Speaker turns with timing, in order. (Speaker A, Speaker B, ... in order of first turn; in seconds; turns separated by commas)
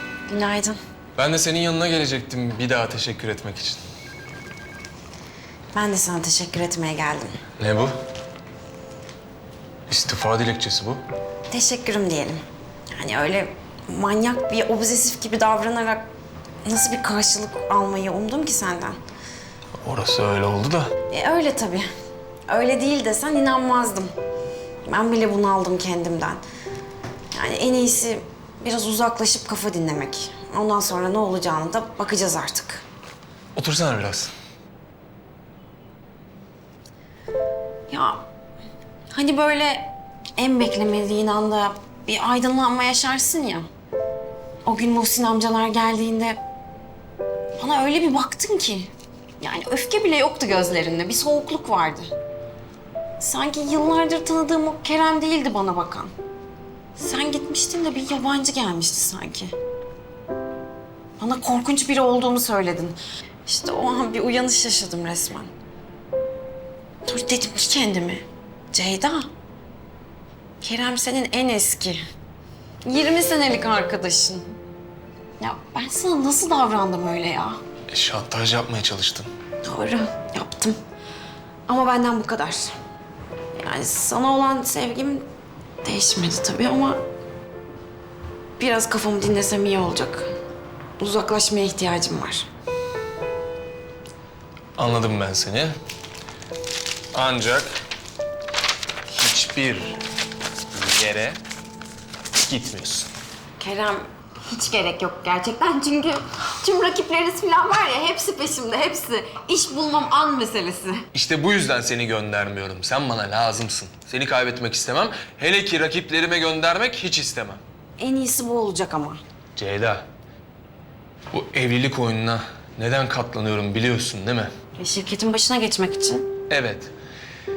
Speaker A: 0.3-0.8, Speaker B: 1.1-3.8, Speaker A: 5.7-7.3, Speaker B: 7.6-8.0, Speaker B: 9.9-11.0, Speaker A: 11.5-12.4, Speaker A: 12.9-16.0, Speaker A: 16.6-19.0, Speaker B: 19.8-20.9, Speaker A: 21.1-21.9, Speaker A: 22.5-24.1, Speaker A: 24.9-26.4, Speaker A: 27.3-32.8, Speaker B: 33.5-34.3, Speaker A: 37.9-38.2, Speaker A: 39.1-43.7, Speaker A: 44.6-46.4, Speaker A: 47.6-52.1, Speaker A: 53.2-56.1, Speaker A: 57.0-59.5, Speaker A: 61.2-65.5, Speaker A: 67.0-69.2, Speaker A: 70.6-72.0, Speaker A: 72.8-74.5, Speaker A: 75.4-77.6, Speaker B: 77.9-79.3, Speaker A: 79.6-80.8, Speaker A: 81.7-82.7, Speaker A: 83.5-85.2, Speaker A: 85.8-87.0, Speaker A: 88.6-90.3, Speaker A: 91.0-92.5, Speaker B: 94.8-95.7, Speaker B: 97.1-97.7, Speaker B: 99.1-100.0, Speaker B: 100.7-101.4, Speaker B: 102.4-103.1, Speaker A: 103.6-111.0, Speaker B: 111.1-117.6, Speaker A: 118.0-119.2, Speaker B: 119.5-120.0, Speaker B: 121.3-124.5, Speaker A: 124.8-126.3, Speaker B: 126.5-126.9